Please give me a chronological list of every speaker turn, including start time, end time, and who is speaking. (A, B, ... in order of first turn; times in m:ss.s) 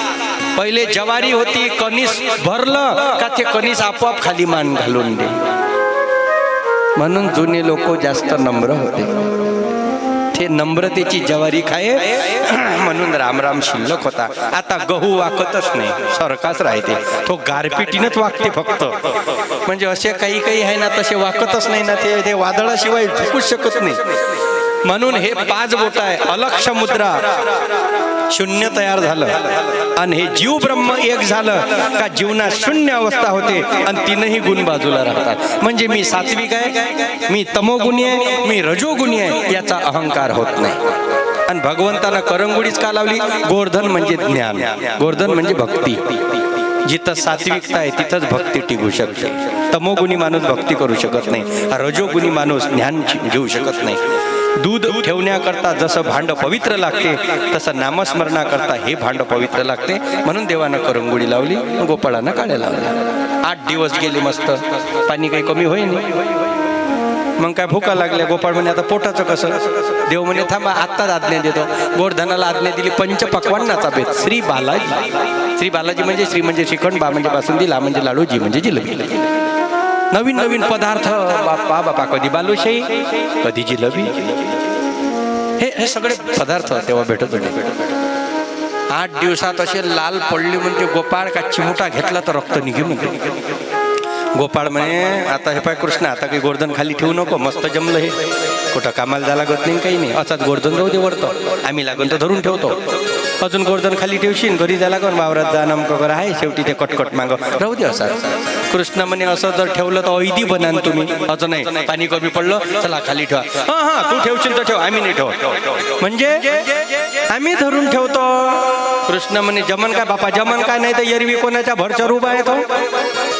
0:00.6-0:05.4 A
0:07.0-0:09.1 A
0:10.3-0:24.0 A
0:24.8-0:27.4 A
0:28.3-0:40.9 A
0:41.4-0:54.0 A
0:54.6-1:06.2 A
1:07.4-1:19.3 A
1:20.1-1:24.4 A
1:25.6-1:27.7 A
1:28.9-1:33.4 A
1:34.4-2:02.8 A